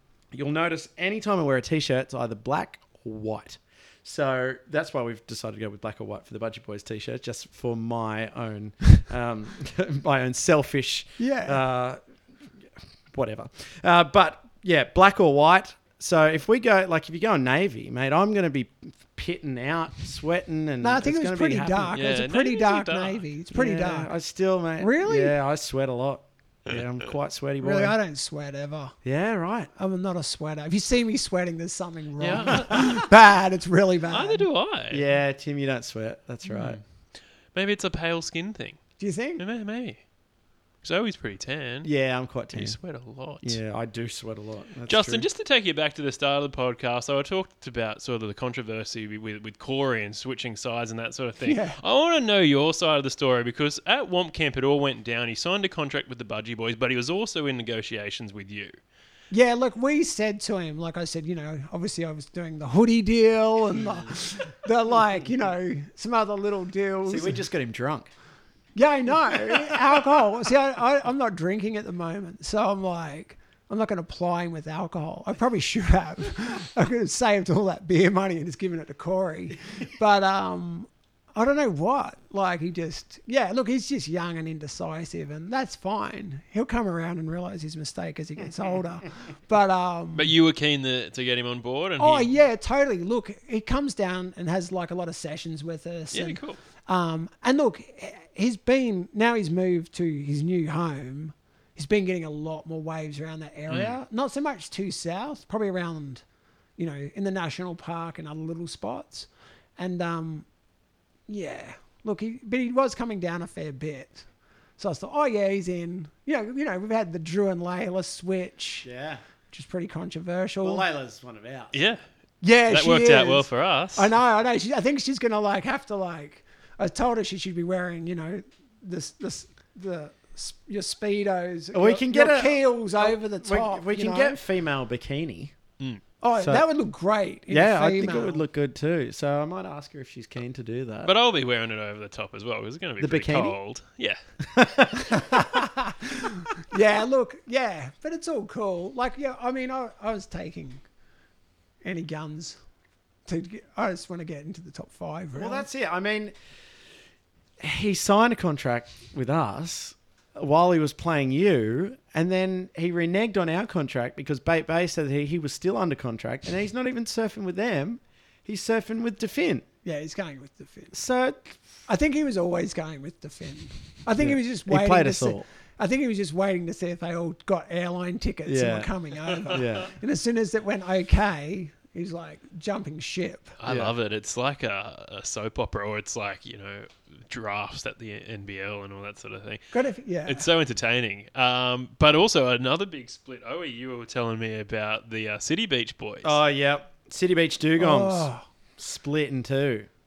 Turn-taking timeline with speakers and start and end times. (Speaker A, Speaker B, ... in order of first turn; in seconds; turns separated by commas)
Speaker A: 0.3-12.0, Speaker B: 11.2-11.6, Speaker A: 13.1-22.0, Speaker B: 20.8-24.1, Speaker C: 21.9-23.2, Speaker A: 23.5-27.9, Speaker B: 24.8-25.4, Speaker B: 27.6-29.0, Speaker A: 29.0-29.7, Speaker B: 29.8-34.5, Speaker C: 32.2-33.1, Speaker C: 34.1-35.0, Speaker A: 34.9-36.8, Speaker C: 36.5-36.8, Speaker C: 37.5-38.8, Speaker B: 39.0-39.4, Speaker C: 39.4-40.0, Speaker C: 40.8-41.9, Speaker A: 41.8-42.8, Speaker C: 42.5-43.6, Speaker A: 43.4-45.3, Speaker C: 44.9-58.8, Speaker B: 51.4-51.8, Speaker B: 59.3-67.4, Speaker A: 67.1-68.1, Speaker B: 68.8-90.3, Speaker C: 90.2-92.3, Speaker B: 92.0-106.2, Speaker C: 96.1-96.6, Speaker C: 103.7-104.0, Speaker B: 106.8-110.5, Speaker B: 111.3-114.2, Speaker B: 114.8-118.9, Speaker A: 118.8-119.2, Speaker B: 119.5-120.8, Speaker A: 120.6-121.8, Speaker C: 121.7-122.0, Speaker B: 122.4-134.4, Speaker C: 122.7-124.1, Speaker A: 131.7-135.6, Speaker B: 136.2-138.4, Speaker A: 136.4-136.7, Speaker A: 137.5-141.1, Speaker C: 141.1-144.2, Speaker A: 143.0-143.6, Speaker A: 144.5-145.7, Speaker B: 145.1-150.8, Speaker B: 151.8-152.6, Speaker B: 153.3-155.7, Speaker A: 155.3-156.3, Speaker A: 157.6-169.7, Speaker B: 169.8-170.9, Speaker A: 170.9-171.6, Speaker B: 171.9-183.6, Speaker A: 174.2-175.4, Speaker A: 178.5-178.9, Speaker A: 179.5-179.9, Speaker C: 183.6-189.7, Speaker A: 183.7-183.9, Speaker B: 189.7-190.5, Speaker C: 190.2-196.4, Speaker A: 196.2-199.9, Speaker B: 197.8-198.4